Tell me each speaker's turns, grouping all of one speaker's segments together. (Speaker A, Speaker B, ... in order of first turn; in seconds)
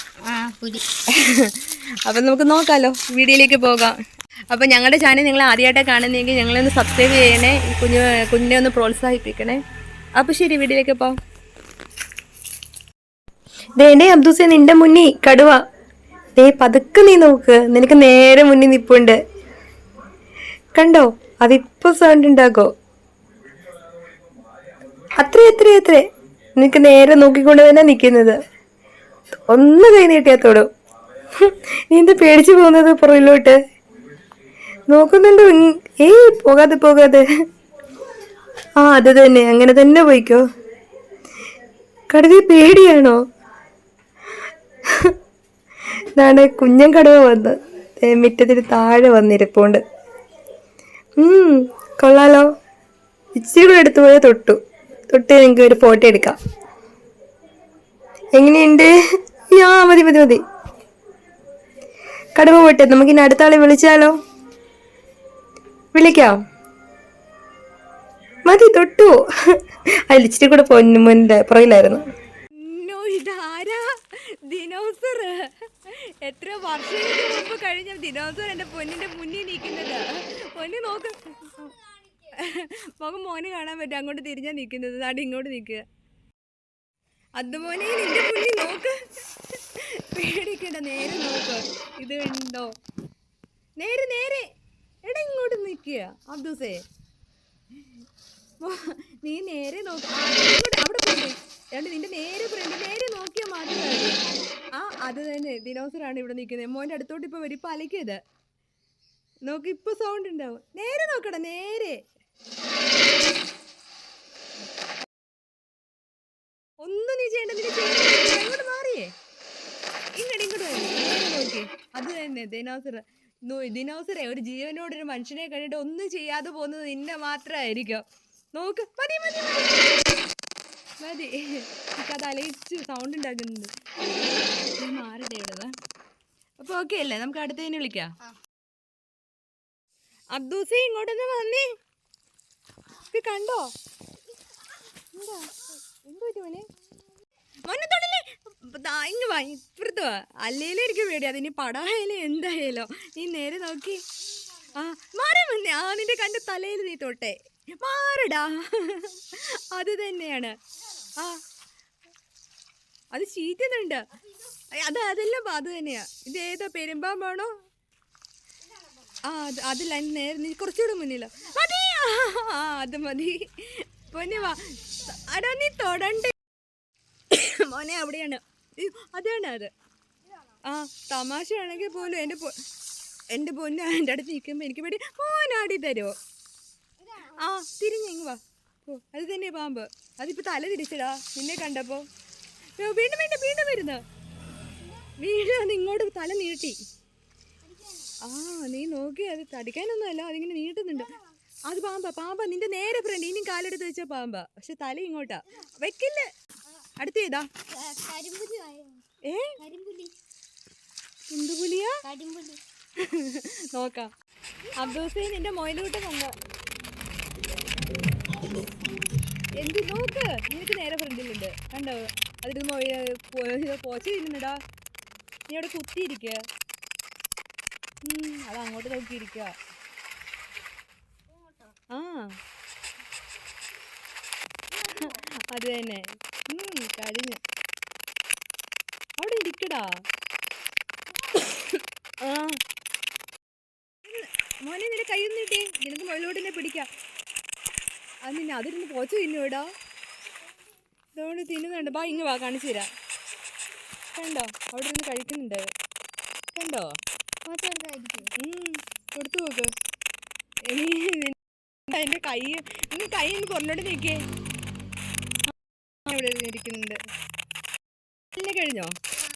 Speaker A: 0.2-0.8, 197.8-198.1, 207.7-209.0, 209.6-210.2, 212.0-212.6, 257.5-258.3
Speaker B: 1.1-4.0, 4.5-9.6, 10.2-11.2, 13.8-15.6, 16.4-19.1, 20.8-22.7, 25.2-26.0, 26.6-28.4, 29.5-30.7, 31.4-33.6, 34.9-37.2, 38.8-40.5, 42.1-43.2, 46.2-49.8, 51.2-52.5, 53.3-54.6, 55.1-56.4, 58.4-59.0, 59.5-60.4, 62.4-64.1, 66.0-66.4, 68.5-69.1, 70.1-72.0, 72.6-85.8, 87.4-92.7, 93.8-94.5, 95.0-96.8, 98.6-108.2, 109.5-112.0, 116.8-119.1, 120.2-130.0, 131.0-133.7, 134.8-135.8, 136.6-138.1, 140.3-141.7, 143.1-143.7, 145.1-146.7, 147.6-154.0, 154.7-160.6, 161.2-161.4, 163.1-164.0, 164.7-167.5, 169.2-176.4, 177.3-179.7, 180.6-182.6, 183.3-186.2, 187.2-192.1, 192.8-194.0, 195.0-196.8, 198.2-206.3, 207.0-207.5, 209.2-209.6, 211.3-212.0, 213.0-214.1, 214.7-216.3, 219.6-224.6, 225.5-226.4, 228.0-229.5, 231.9-232.4, 234.8-237.4, 239.2-240.0, 241.3-242.6, 244.0-246.9, 248.3-249.7, 251.2-252.9, 254.2-255.7, 256.5-257.0, 258.4-259.7, 260.7-264.2, 266.1-267.0, 268.3-269.0